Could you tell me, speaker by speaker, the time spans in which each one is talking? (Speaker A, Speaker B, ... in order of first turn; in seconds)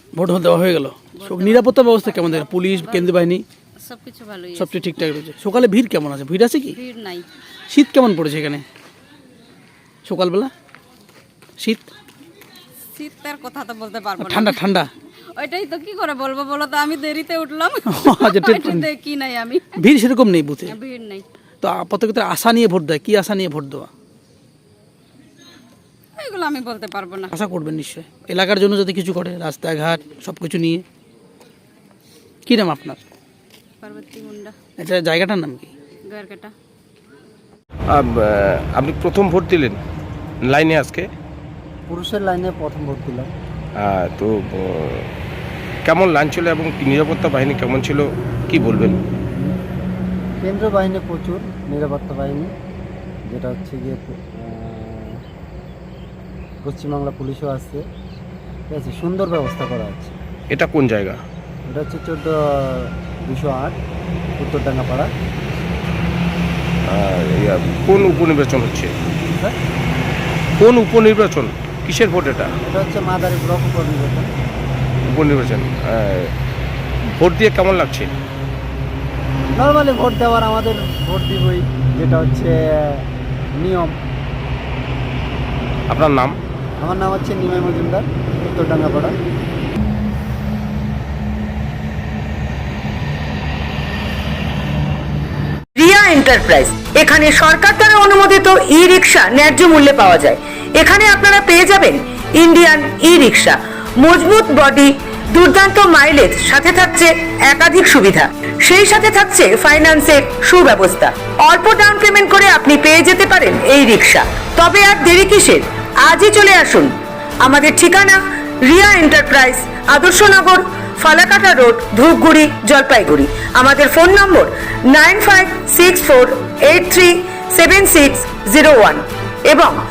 Speaker A: 0.2-3.5, 4.6-6.8, 7.7-8.7, 10.1-10.5, 11.6-11.9, 14.2-14.9, 17.9-18.9, 19.7-20.8, 21.6-23.9, 27.3-30.9, 32.5-33.0, 34.8-35.7
Speaker B: 1.2-1.7, 2.8-3.2, 3.8-4.9, 6.7-7.3, 12.9-14.7, 15.3-19.8, 20.6-21.2, 26.2-27.3, 33.8-34.5, 36.1-36.5
Speaker C: 37.9-39.8, 40.4-41.1, 43.8-45.1, 45.9-49.0, 60.5-61.2, 66.9-68.9, 70.6-72.5, 75.1-76.3, 77.2-78.1, 85.9-86.4
Speaker D: 41.9-43.3, 50.4-52.5, 53.3-55.2, 56.6-57.8, 58.7-60.2, 61.7-63.8, 64.4-65.1, 69.3-69.6, 72.7-74.3, 79.6-83.0, 83.6-84.0, 86.8-89.1
Speaker E: 95.8-116.9, 117.5-129.8